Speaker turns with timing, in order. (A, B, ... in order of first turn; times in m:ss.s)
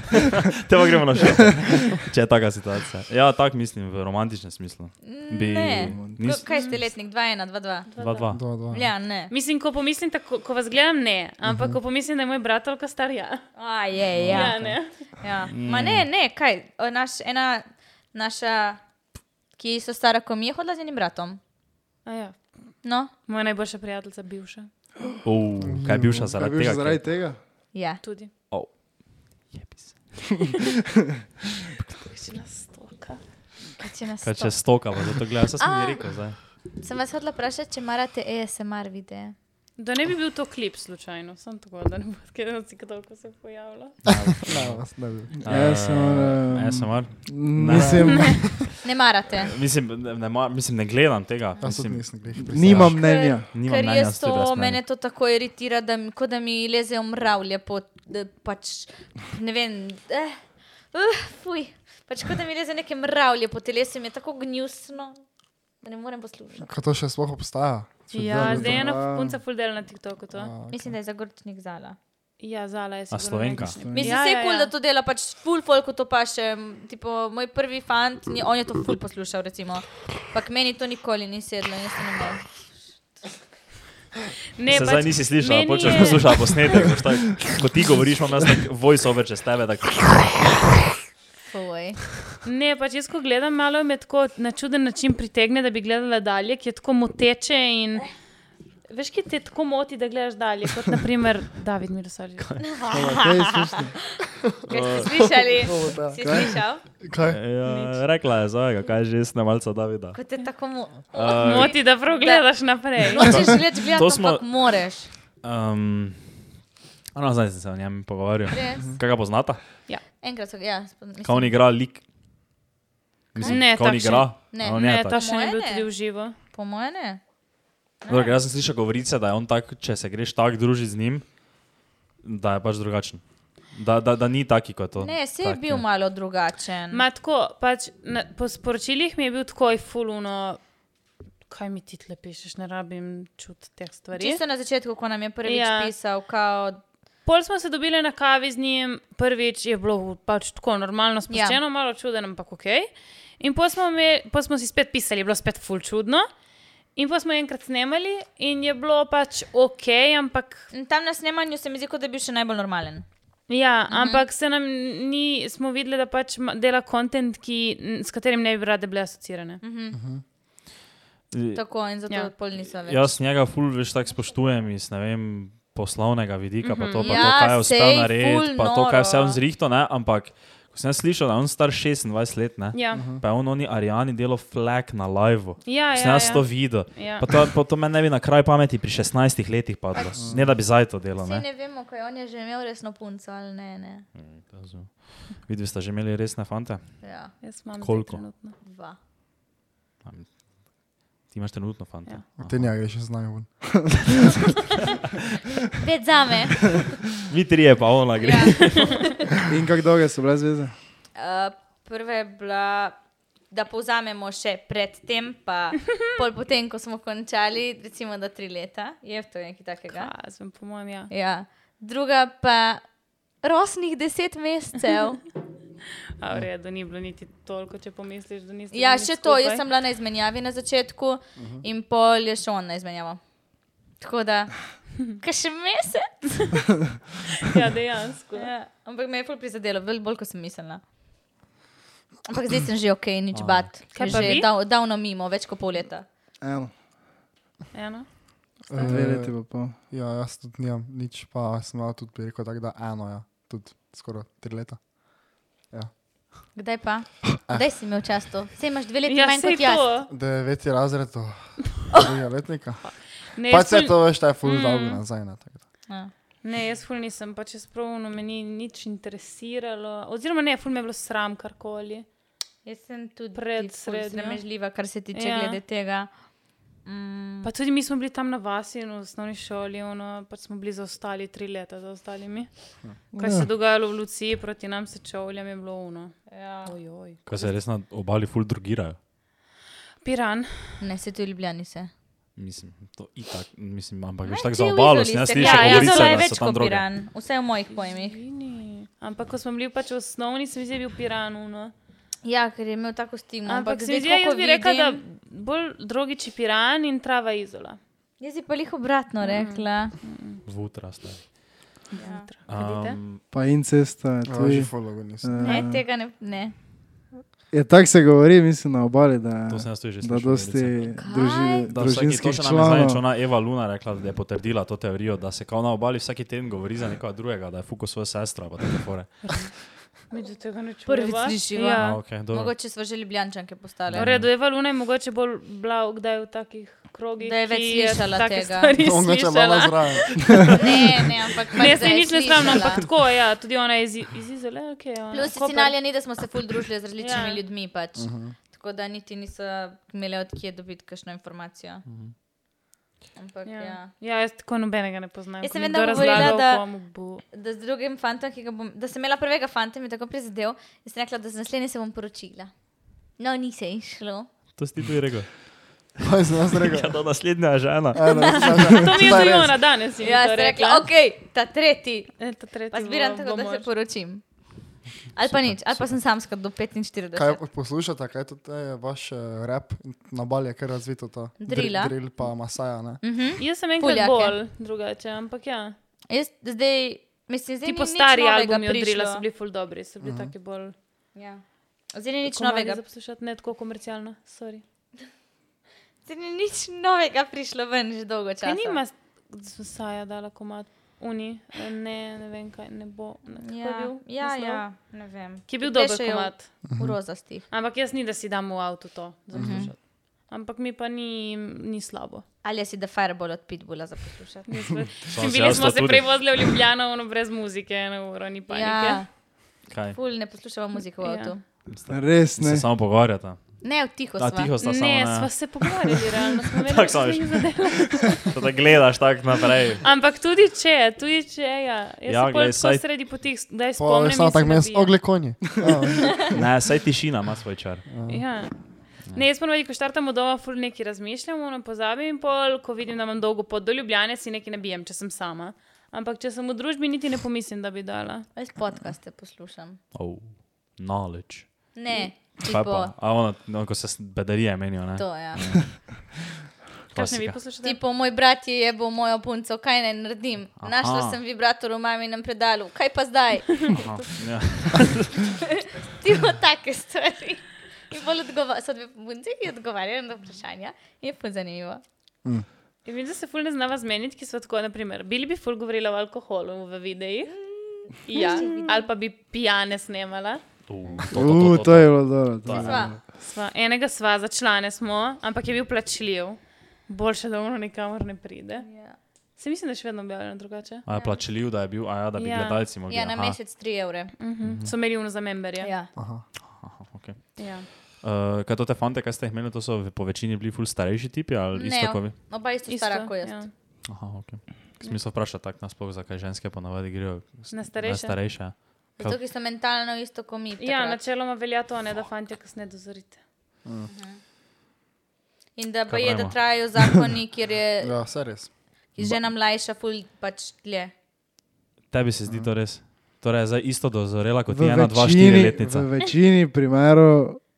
0:00.4-0:06.8 A
0:05.0-0:07.9 B
0:05.8-0:06.2 C
0:06.5-0:06.8 D
0:07.9-0:08.3 D
0:08.0-0:08.4 A
0:08.3-0:08.9 E
0:08.7-0:09.3 B
0:09.3-0:13.4 D
0:13.6-0:18.8 B
0:14.2-0:14.9 D
0:15.5-0:16.0 A
0:19.5-0:21.4 B
0:22.0-0:22.7 D
0:22.8-0:23.1 B
0:23.2-0:24.7 D
0:25.2-0:27.0 A
0:25.6-0:26.3 E
0:26.2-0:27.4 C
0:27.7-0:28.0 B
0:28.0-0:28.3 D
0:28.5-0:30.2 A
0:32.0-0:33.2 D
0:33.8-0:34.8 B
0:34.2-0:36.4 A
0:35.6-0:36.1 B
0:36.6-0:39.3 B
0:39.8-0:44.0 D
0:44.0-0:48.7 A
0:44.1-0:45.3 E
0:45.3-0:48.7 C
0:47.7-0:48.3 E
0:48.8-0:49.5 B
0:49.4-0:54.8 A
0:51.6-0:53.0 E
0:52.3-0:53.5 C
0:52.9-1:05.2 B
1:05.8-1:06.7 B
1:06.6-1:08.9 E
1:08.1-1:10.5 D
1:08.2-1:09.4 C
1:10.3-1:10.9 E
1:10.7-1:12.0 B
1:12.4-1:14.7 D
1:13.1-1:13.8 A
1:13.8-1:14.1 C
1:13.9-1:22.6 B
1:24.6-1:26.6 D
1:24.7-1:30.6 A
1:31.5-1:32.0 B
1:32.4-1:38.1 D
1:38.9-1:42.5 D
1:42.4-1:42.8 A
1:42.6-1:43.7 B
1:42.9-1:43.9 C
1:44.7-1:45.2 A
1:44.7-1:46.8 B
1:45.0-1:46.5 E
1:46.2-1:46.6 C
1:47.0-1:47.4 E
1:47.2-1:50.2 A
1:47.6-1:48.0 D
1:50.1-1:52.4 B
1:51.1-1:51.8 A
1:51.2-1:53.3 D
1:53.1-1:55.1 B
1:53.2-1:54.4 A
1:55.4-1:56.4 A
1:57.1-1:59.6 A
1:58.5-1:58.9 B
2:00.2-2:01.6 B
2:01.2-2:02.0 A
2:03.3-2:05.2 A
2:03.4-2:06.4 D
2:04.5-2:05.9 B
2:06.5-2:07.2 B
2:08.0-2:08.4 B
2:08.1-2:11.2 A
2:12.2-2:15.8 A
2:15.0-2:17.0 B
2:16.9-2:20.6 D
2:21.5-2:24.4 D
2:24.1-2:26.8 B
2:25.4-2:25.9 D
2:27.2-2:36.3 D
2:31.3-2:31.6 B
2:37.0-2:40.7 D
2:40.7-2:43.0 B
2:43.5-2:49.6 D
2:43.9-2:44.2 B
2:49.6-2:50.0 B
2:49.9-2:50.2 E
2:51.3-2:51.6 A
2:51.5-2:53.2 B
2:52.6-3:11.4 A
2:56.6-2:57.3 D
2:57.0-2:59.4 B
3:02.7-3:03.0 D
3:02.9-3:03.2 E
3:05.6-3:07.2 D
3:11.2-3:14.0 B
3:14.1-3:17.0 A
3:17.0-3:17.3 B
3:17.4-3:18.6 D
3:17.8-3:18.2 A
3:18.6-3:19.0 B
3:20.0-3:22.7 A
3:22.4-3:23.6 E
3:25.8-3:26.8 B
3:27.3-3:29.0 A
3:28.2-3:29.3 B
3:29.4-3:30.7 C
3:31.1-3:33.0 B
3:33.5-3:40.1 B
3:39.9-3:41.1 D
3:41.1-3:42.8 B
3:43.4-3:45.2 B
3:46.2-3:49.6 D
3:48.7-3:53.2 B
3:51.4-3:51.6 E
3:54.0-3:56.5 B
3:57.4-3:58.5 D
3:58.3-4:00.8 B
4:02.3-4:06.0 B
4:03.3-4:04.1 A
4:03.9-4:04.5 D
4:06.4-4:06.7 C
4:07.7-4:08.1 D
4:08.7-4:14.9 E
4:08.8-4:09.8 C
4:15.6-4:15.9 E
4:16.6-4:19.8 B
4:19.0-4:20.1 D
4:20.1-4:25.6 E
4:22.8-4:25.0 D
4:26.4-4:32.0 D
4:32.6-4:36.1 B
4:33.3-4:34.4 D
4:35.1-4:35.6 D
4:36.8-4:37.5 B
4:37.4-4:42.5 D
4:43.1-4:43.5 C
4:43.2-4:47.6 D
4:46.3-4:46.7 B
4:47.3-4:49.0 A
4:50.0-4:50.8 D
4:50.8-4:51.9 B
4:52.4-4:56.9 A
4:54.2-4:58.2 B
4:55.3-4:56.3 D
4:57.7-5:01.7 D
5:02.2-5:05.0 B
5:03.4-5:07.8 D
5:08.2-5:09.9 B
5:09.2-5:10.4 D
5:10.4-5:11.4 A
5:11.9-5:13.0 D
5:12.0-5:12.2 B
5:12.5-5:13.2 A
5:13.3-5:15.8 C
5:14.2-5:15.6 E
5:15.4-5:16.5 B
5:17.5-5:23.0 C
5:19.5-5:20.9 A
5:20.9-5:21.7 B
5:21.7-5:29.4 A
5:30.1-5:32.0 D
5:30.8-5:34.1 B
5:31.8-5:32.5 A
5:33.9-5:34.3 A
5:33.9-5:40.6 D
5:37.2-5:38.7 B
5:38.8-5:40.3 E
5:40.5-5:42.8 B
5:41.5-5:45.8 D
5:45.1-5:51.8 B
5:47.0-5:47.4 D
5:48.0-5:48.3 E
5:51.8-5:52.1 A
5:53.2-5:53.9 B
5:53.4-5:57.2 D
5:55.4-5:56.7 B
5:57.3-6:02.5 B
6:03.2-6:04.3 B
6:04.6-6:05.3 A
6:06.0-6:07.0 E
6:06.6-6:08.4 A
6:07.9-6:09.6 E
6:08.1-6:10.8 D
6:08.2-6:09.2 B
6:10.0-6:14.2 B
6:12.2-6:13.7 D
6:15.1-6:17.4 B
6:17.1-6:23.0 E
6:21.4-6:21.9 B
6:23.0-6:24.4 B
6:23.4-6:25.7 D
6:26.1-6:29.2 B
6:27.6-6:30.7 D
6:30.0-6:30.3 E
6:31.1-6:32.8 B
6:32.2-6:34.6 D
6:36.0-6:38.8 B
6:38.4-6:44.6 D
6:43.4-6:47.4 B
6:45.5-6:46.5 D
6:46.6-6:47.0 E
6:47.5-6:52.2 D
6:49.3-6:49.7 B
6:49.4-6:49.6 E
6:52.4-6:54.5 B
6:54.5-6:59.0 D
6:55.1-6:56.1 A
6:58.5-6:59.1 B
6:59.7-7:00.0 A
6:59.9-7:01.4 B
7:01.0-7:01.4 D
7:01.7-7:03.4 A
7:01.9-7:02.6 C
7:03.6-7:04.5 B
7:04.2-7:07.5 A
7:04.6-7:08.3 D
7:08.2-7:09.8 A
7:09.8-7:15.0 D
7:12.1-7:12.8 A
7:13.8-7:16.3 E
7:16.2-7:17.8 A
7:17.9-7:18.2 E
7:18.1-7:28.3 D
7:28.3-7:29.8 B
7:29.9-7:31.8 A
7:31.7-7:32.9 B
7:32.4-7:36.0 A
7:35.0-7:35.4 B
7:36.9-7:37.4 A
7:36.9-7:37.8 D
7:37.6-7:43.8 B
7:40.6-7:41.2 A
7:43.7-7:45.1 A
7:45.3-7:51.8 B
7:52.8-7:57.4 D
7:57.4-7:58.8 B
7:58.0-8:00.4 D
8:00.7-8:02.9 A
8:01.1-8:03.0 C
8:02.5-8:02.9 B
8:03.2-8:08.7 D
8:08.6-8:09.0 B
8:09.4-8:10.8 D
8:10.8-8:13.4 A
8:10.9-8:11.2 B
8:12.2-8:12.6 D
8:12.9-8:14.1 B
8:14.2-8:15.7 D
8:14.4-8:14.7 A
8:15.6-8:15.9 B
8:16.0-8:16.2 E
8:16.4-8:22.1 A
8:17.4-8:17.7 D
8:21.6-8:23.4 B
8:22.7-8:23.5 D
8:23.9-8:29.2 A
8:27.5-8:28.2 D
8:29.0-8:31.0 B
8:30.6-8:33.2 D
8:33.9-8:34.2 B
8:35.6-8:37.9 B
8:35.9-8:36.4 A
8:37.8-8:38.5 E
8:38.9-8:40.9 B
8:41.9-8:45.9 A
8:44.5-8:47.4 C